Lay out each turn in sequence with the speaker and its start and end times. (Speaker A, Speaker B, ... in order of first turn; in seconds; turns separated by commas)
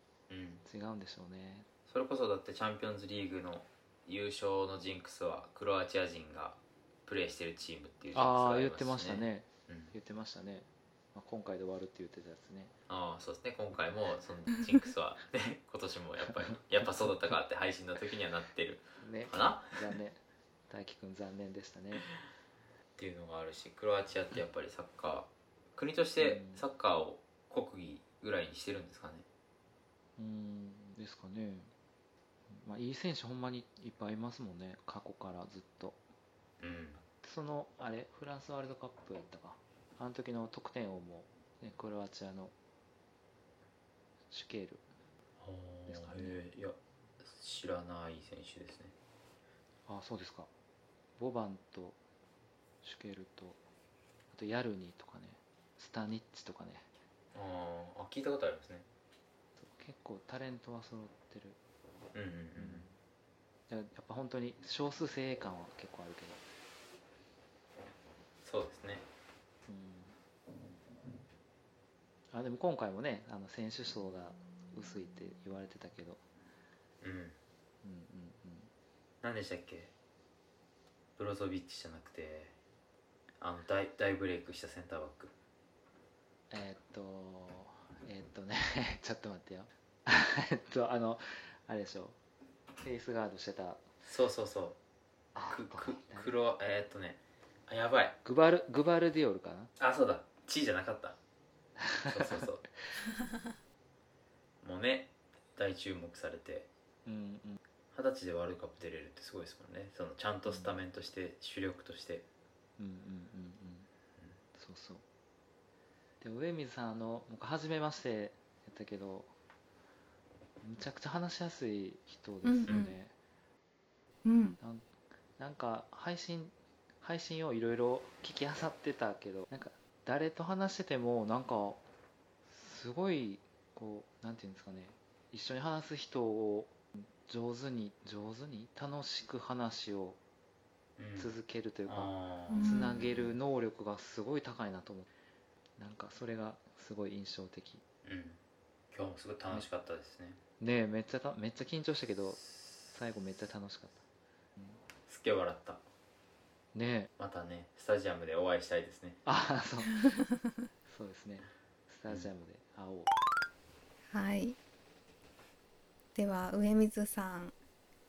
Speaker A: 0.3-0.6, Speaker B: 0.7-1.7, Speaker A: 1.9-9.9, Speaker B: 8.1-12.7, Speaker A: 12.9-19.8, Speaker B: 19.0-22.1, Speaker A: 23.0-29.3, Speaker B: 26.2-26.6, Speaker B: 30.2-31.7, Speaker B: 32.5-36.0, Speaker A: 36.6-37.0, Speaker B: 37.2-42.5, Speaker B: 44.3-44.8, Speaker A: 45.4-48.9, Speaker B: 45.9-46.4, Speaker B: 49.9-50.5, Speaker B: 51.2-52.0, Speaker B: 52.8-53.6, Speaker B: 54.3-56.9, Speaker A: 57.3-58.9, Speaker B: 59.6-61.6, Speaker A: 62.1-62.9, Speaker B: 62.6-63.0, Speaker B: 63.7-66.4, Speaker A: 68.4-69.0, Speaker B: 69.7-70.2, Speaker B: 72.3-76.2, Speaker A: 77.0-77.4, Speaker B: 77.8-78.7, Speaker A: 79.2-79.9, Speaker A: 81.2-82.5, Speaker A: 83.4-85.3, Speaker B: 86.5-92.2, Speaker B: 92.8-93.8, Speaker A: 94.0-94.8, Speaker B: 95.3-96.3, Speaker A: 95.5-98.2, Speaker B: 98.2-99.7, Speaker A: 99.8-101.2, Speaker A: 102.0-102.7, Speaker A: 104.6-106.7, Speaker B: 107.0-107.6, Speaker A: 107.9-112.2, Speaker B: 110.5-110.8, Speaker B: 112.8-113.9, Speaker B: 114.5-115.0, Speaker B: 116.2-119.3, Speaker B: 120.6-123.1, Speaker C: 122.4-123.0, Speaker C: 124.2-124.6, Speaker B: 124.6-124.9, Speaker B: 125.4-131.8, Speaker B: 132.5-140.2, Speaker A: 141.0-141.4, Speaker B: 141.2-145.1, Speaker A: 141.9-142.8, Speaker C: 142.5-143.2, Speaker B: 145.8-147.8, Speaker A: 148.1-148.4, Speaker A: 148.9-150.4, Speaker B: 150.6-154.0, Speaker A: 155.1-155.8, Speaker B: 156.7-157.1, Speaker A: 157.2-159.2, Speaker B: 159.2-160.1, Speaker B: 160.9-163.1, Speaker C: 164.1-164.6, Speaker C: 166.2-167.5